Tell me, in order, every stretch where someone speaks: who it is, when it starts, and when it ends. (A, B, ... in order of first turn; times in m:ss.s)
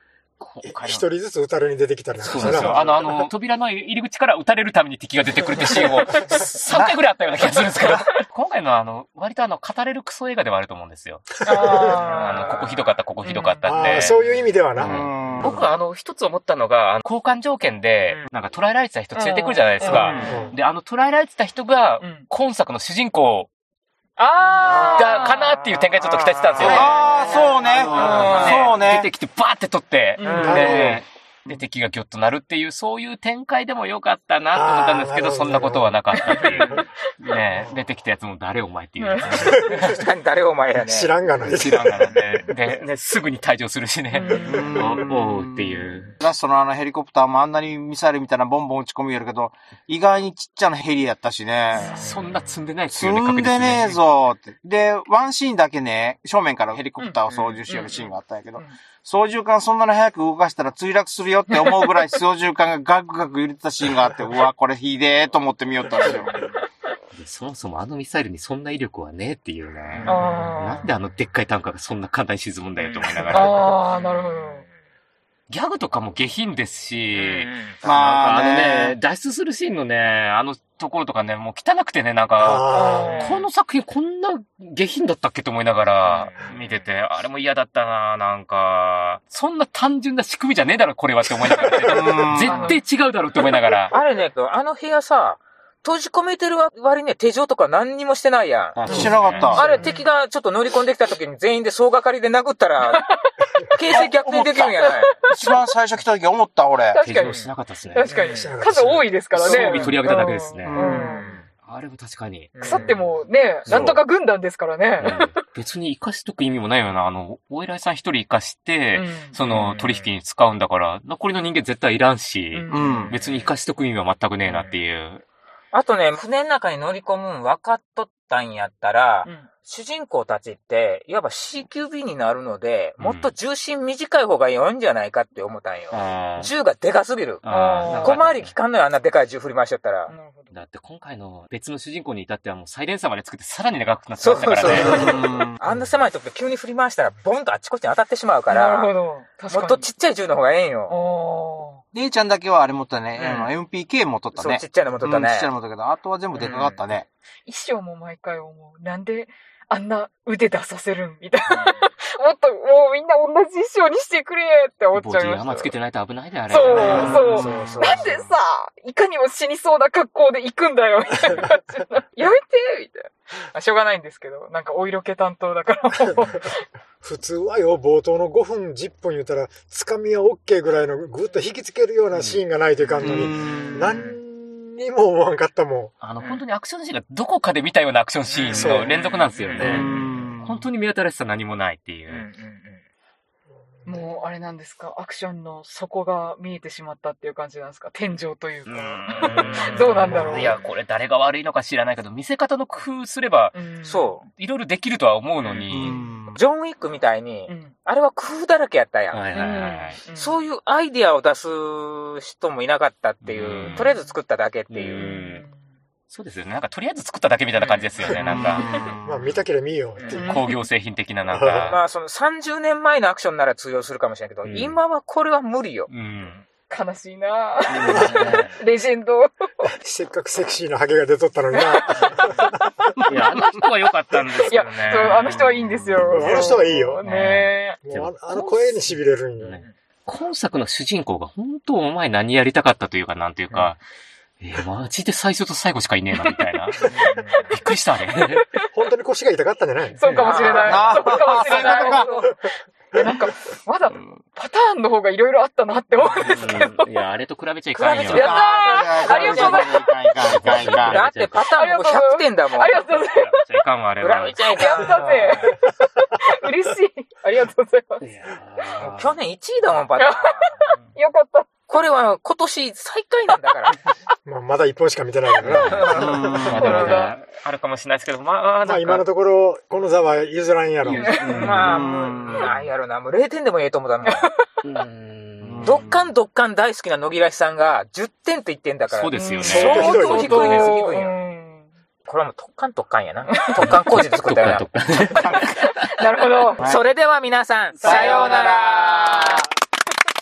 0:00.4-0:01.0 A
0:00.6-0:02.8 B
0:02.2-0:14.2 A
0:02.3-0:03.0 C
0:02.4-0:03.1 D
0:06.2-0:06.4 E
0:06.7-0:07.0 B
0:11.4-0:13.8 E
0:11.5-0:12.0 B
0:12.0-0:12.6 C
0:13.6-0:15.0 B
0:14.8-0:23.5 A
0:14.9-0:15.6 D
0:19.1-0:20.4 E
0:19.9-0:20.4 D
0:20.2-0:20.6 B
0:22.0-0:22.3 E
0:24.2-0:25.7 E
0:24.4-0:25.2 C
0:24.9-0:27.0 A
0:26.5-0:27.2 C
0:26.5-0:28.8 E
0:26.6-0:29.1 D
0:27.8-0:40.0 A
0:27.9-0:28.5 C
0:30.2-0:30.6 E
0:30.2-0:30.8 C
0:30.4-0:31.0 B
0:34.5-0:36.6 B
0:36.1-0:36.8 E
0:39.0-0:39.7 E
0:39.4-0:40.0 B
0:39.5-0:41.1 C
0:40.8-0:42.1 B
0:41.4-0:46.2 A
0:44.1-0:44.7 E
0:44.4-0:52.0 D
0:51.8-0:52.4 E
0:51.9-0:54.0 A
0:52.9-1:06.4 D
0:57.0-0:58.8 E
0:57.3-0:57.6 C
1:01.5-1:01.9 E
1:07.2-1:13.7 A
1:10.0-1:10.9 E
1:12.8-1:14.6 C
1:13.3-1:14.6 E
1:15.5-1:34.0 A
1:17.1-1:17.8 C
1:17.8-1:19.0 D
1:22.4-1:23.3 B
1:22.7-1:23.4 E
1:23.1-1:23.4 C
1:26.1-1:26.6 C
1:31.9-1:32.6 D
1:32.4-1:32.8 C
1:33.9-1:43.1 C
1:38.7-1:39.8 A
1:38.9-1:39.7 D
1:39.6-1:40.1 E
1:42.9-1:43.3 E
1:43.7-1:45.2 C
1:43.9-1:44.8 D
1:44.8-1:45.7 E
1:45.3-1:47.0 D
1:46.9-1:51.3 E
1:47.0-1:48.1 A
1:47.2-1:47.5 C
1:48.1-1:48.5 C
1:48.3-1:49.1 B
1:49.4-1:50.9 A
1:49.5-1:50.0 C
1:50.7-1:51.2 D
1:50.9-1:51.4 C
1:51.6-1:52.9 A
1:52.6-1:53.0 C
1:52.6-1:55.4 E
1:53.7-1:53.9 D
1:53.7-1:54.0 A
1:55.0-2:05.2 A
1:58.9-1:59.4 E
1:59.4-2:00.1 C
2:02.5-2:03.2 E
2:02.7-2:03.1 D
2:02.9-2:03.5 C
2:04.5-2:04.8 C
2:05.7-2:20.1 C
2:13.0-2:13.3 A
2:15.9-2:16.5 A
2:17.4-2:18.5 A
2:17.4-2:18.2 E
2:20.1-2:20.6 E
2:20.5-2:25.0 A
2:24.2-2:28.9 C
2:24.6-2:25.6 D
2:28.5-2:29.9 E
2:29.5-2:31.0 C
2:30.9-2:31.8 E
2:31.9-2:37.1 D
2:33.2-2:33.5 C
2:34.4-2:35.5 C
2:36.4-2:36.8 C
2:37.5-2:45.7 E
2:41.5-2:41.8 C
2:45.0-2:47.5 A
2:46.5-2:56.6 E
2:46.7-2:48.0 C
2:46.8-2:48.2 D
2:57.0-3:05.9 B
3:02.1-3:02.4 A
3:03.0-3:03.9 D
3:03.4-3:04.2 C
3:06.0-3:09.9 A
3:08.3-3:10.3 C
3:08.5-3:08.9 B
3:09.6-3:10.6 D
3:10.4-3:12.3 A
3:12.1-3:12.8 C
3:13.9-3:20.6 E
3:18.7-3:23.6 A
3:23.5-3:24.2 E
3:23.8-3:24.2 C
3:24.4-3:26.0 A
3:25.4-3:25.7 C
3:25.7-3:26.4 D
3:26.3-3:29.2 C
3:27.5-3:27.8 E
3:29.1-3:30.0 A
3:29.3-3:30.4 E
3:30.2-3:35.1 C
3:33.2-3:33.9 A
3:33.8-3:34.1 E
3:34.7-3:35.5 A
3:35.0-3:35.7 E
3:36.1-3:38.7 A
3:37.6-3:37.9 C
3:38.2-3:39.4 D
3:39.0-3:40.4 B
3:40.1-3:40.6 E
3:40.2-3:41.8 A
3:41.3-3:41.8 B
3:41.7-3:45.9 C
3:44.4-3:44.8 A
3:45.9-3:46.4 A
3:46.7-3:49.7 E
3:47.7-3:48.5 A
3:47.9-3:48.2 B
3:49.7-3:52.7 B
3:51.5-3:52.2 E
3:52.0-3:52.4 C
3:53.1-4:03.8 A
3:53.3-3:53.7 E
3:54.3-3:57.8 E
3:56.0-3:57.0 B
3:57.8-3:59.6 B
3:58.4-3:58.8 E
4:04.4-4:06.9 A
4:06.1-4:06.4 E
4:06.8-4:07.5 C
4:07.5-4:08.4 A
4:08.7-4:10.2 B
4:10.0-4:12.4 E
4:10.0-4:10.5 A
4:10.2-4:12.3 C
4:10.3-4:12.1 D
4:12.9-4:16.9 E
4:16.2-4:18.4 A
4:17.7-4:19.7 C
4:18.1-4:21.0 D
4:18.1-4:20.9 E
4:20.2-4:21.5 A
4:20.6-4:22.8 C
4:21.5-4:23.5 E
4:22.8-4:25.0 A
4:24.0-4:25.5 C
4:24.5-4:28.0 E
4:28.0-4:29.2 A
4:28.8-4:30.8 C
4:30.0-4:31.5 E
4:31.7-4:33.8 C
4:34.2-4:36.5 B
4:35.4-4:39.0 A
4:35.6-4:36.3 C
4:35.9-4:37.0 D
4:36.5-4:37.1 E
4:38.6-4:41.6 B
4:40.8-4:41.8 A
4:41.0-4:41.5 E
4:41.3-4:44.3 C
4:41.5-4:42.6 D
4:44.1-4:44.6 E
4:44.6-4:45.9 A
4:45.4-4:46.1 D
4:45.6-4:51.2 C
4:48.9-4:50.7 A
4:49.2-4:51.7 E
4:49.4-4:50.7 B
4:52.1-4:54.7 C
4:53.3-4:53.6 E
4:53.6-4:55.9 A
4:55.2-4:55.5 D
4:55.3-4:56.6 E
4:56.6-4:56.8 D
4:56.6-4:59.5 C
4:57.8-4:59.5 D
4:57.8-4:58.1 A